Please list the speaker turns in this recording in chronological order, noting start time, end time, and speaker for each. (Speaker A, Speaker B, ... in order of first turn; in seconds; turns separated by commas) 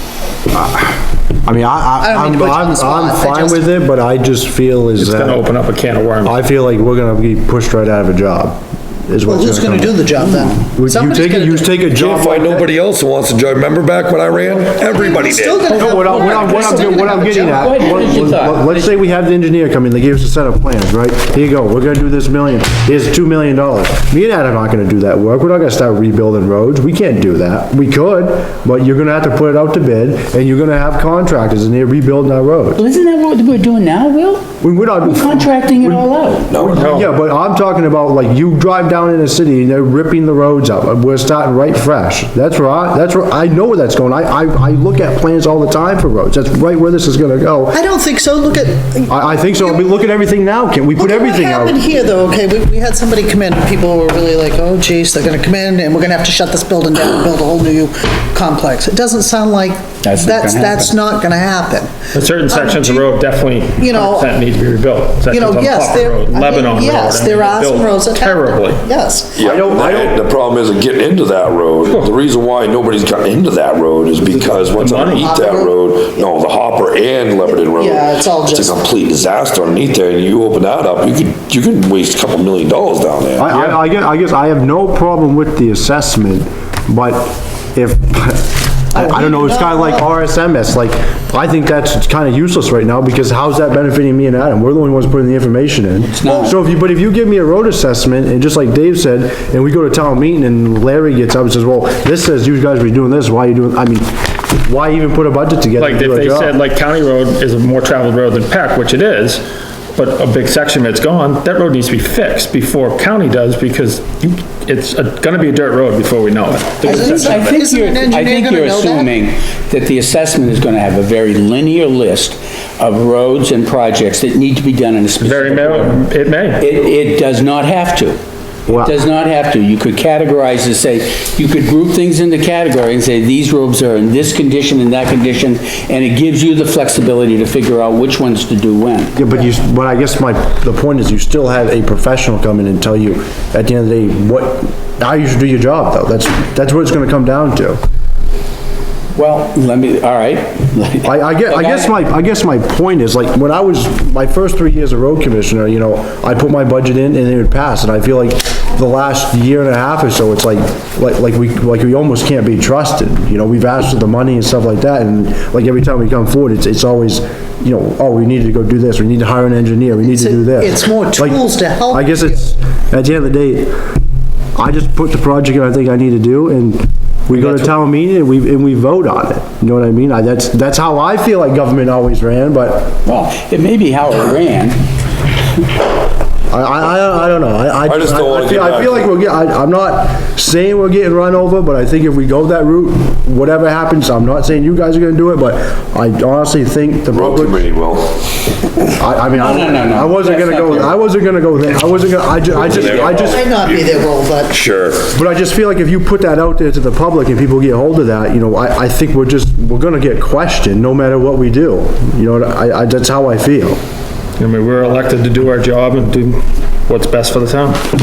Speaker A: 0.5-5.5, Speaker B: 2.0-3.6, Speaker C: 5.0-6.4, Speaker A: 6.2-10.0, Speaker B: 9.3-11.7, Speaker A: 10.7-12.7, Speaker D: 11.9-15.9, Speaker B: 14.8-18.1, Speaker A: 15.7-32.8, Speaker E: 16.0-19.1, Speaker E: 32.8-34.5, Speaker A: 34.6-47.8, Speaker E: 35.0-36.5, Speaker D: 36.5-36.9, Speaker C: 36.8-37.1, Speaker B: 47.7-49.8, Speaker A: 49.1-51.8, Speaker B: 51.0-63.3, Speaker E: 60.0-60.9, Speaker C: 62.1-68.8, Speaker B: 63.8-64.4, Speaker B: 65.3-69.4, Speaker D: 69.3-83.5, Speaker A: 69.4-70.2, Speaker C: 71.9-72.1, Speaker C: 74.7-75.3, Speaker B: 75.1-76.0, Speaker B: 77.5-78.8, Speaker A: 83.4-106.5, Speaker B: 88.9-90.0, Speaker E: 96.1-96.5, Speaker C: 105.8-109.4, Speaker C: 110.0-117.6, Speaker E: 116.8-126.0, Speaker B: 116.8-119.1, Speaker C: 125.2-126.7, Speaker E: 126.6-139.2, Speaker A: 128.7-128.9, Speaker A: 139.2-147.8, Speaker E: 149.2-151.9, Speaker A: 151.0-171.4, Speaker B: 170.1-172.2, Speaker A: 171.9-173.8, Speaker A: 174.6-183.0, Speaker E: 177.3-177.7, Speaker E: 183.1-184.8, Speaker A: 186.5-197.7, Speaker D: 187.9-189.1, Speaker D: 197.1-198.2, Speaker A: 198.9-203.4, Speaker E: 199.3-201.0, Speaker D: 202.5-205.1, Speaker B: 202.8-204.6, Speaker A: 205.1-213.8, Speaker C: 214.4-217.8